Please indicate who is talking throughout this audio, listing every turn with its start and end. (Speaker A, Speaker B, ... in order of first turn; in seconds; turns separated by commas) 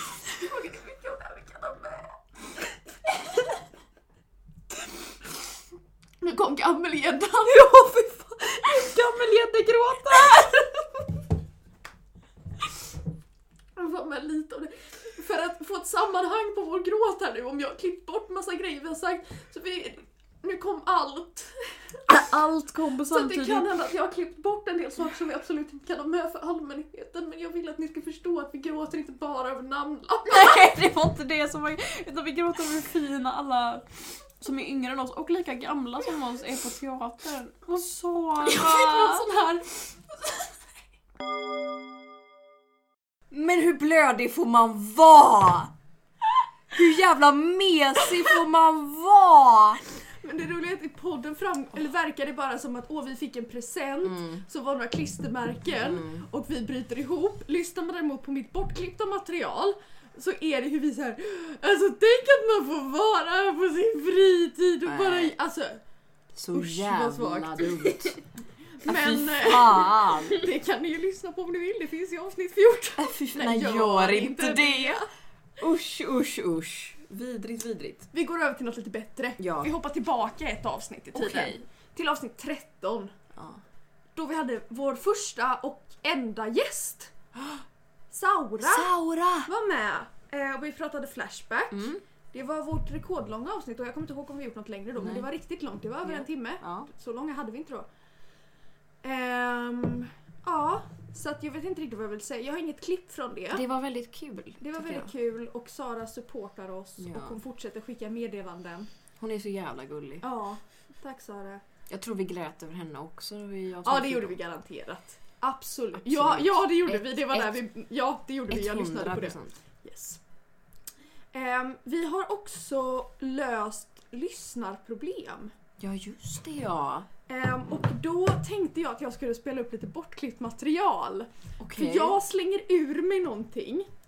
Speaker A: 0.4-2.1, Speaker A: 6.2-7.7, Speaker B: 7.4-10.6, Speaker A: 13.8-21.7, Speaker B: 22.1-23.7, Speaker A: 23.1-30.6, Speaker B: 30.3-33.9, Speaker B: 34.4-39.5, Speaker A: 38.4-39.7, Speaker B: 43.3-45.7, Speaker B: 46.7-49.8, Speaker A: 50.2-65.8, Speaker B: 54.1-54.4, Speaker B: 55.8-56.2, Speaker B: 64.9-65.3, Speaker B: 66.3-68.2, Speaker A: 66.5-68.2, Speaker A: 68.8-75.1, Speaker B: 68.8-70.5, Speaker B: 73.0-75.0, Speaker B: 75.6-78.1, Speaker A: 78.1-83.1, Speaker B: 79.4-79.7, Speaker B: 81.2-81.6, Speaker B: 83.3-83.6, Speaker A: 84.2-87.1, Speaker A: 88.1-88.9, Speaker B: 88.6-89.5, Speaker A: 89.5-97.9, Speaker B: 91.7-92.0, Speaker B: 95.0-95.3, Speaker B: 96.0-96.9, Speaker A: 99.0-103.7, Speaker B: 103.5-105.1, Speaker A: 104.6-108.9, Speaker B: 107.0-107.4, Speaker B: 109.2-110.2, Speaker A: 110.2-111.6, Speaker B: 111.9-114.4, Speaker A: 113.8-120.2, Speaker B: 116.0-117.6, Speaker B: 118.5-119.5, Speaker A: 121.3-125.5, Speaker B: 125.8-127.1, Speaker A: 127.3-133.9, Speaker B: 131.6-132.2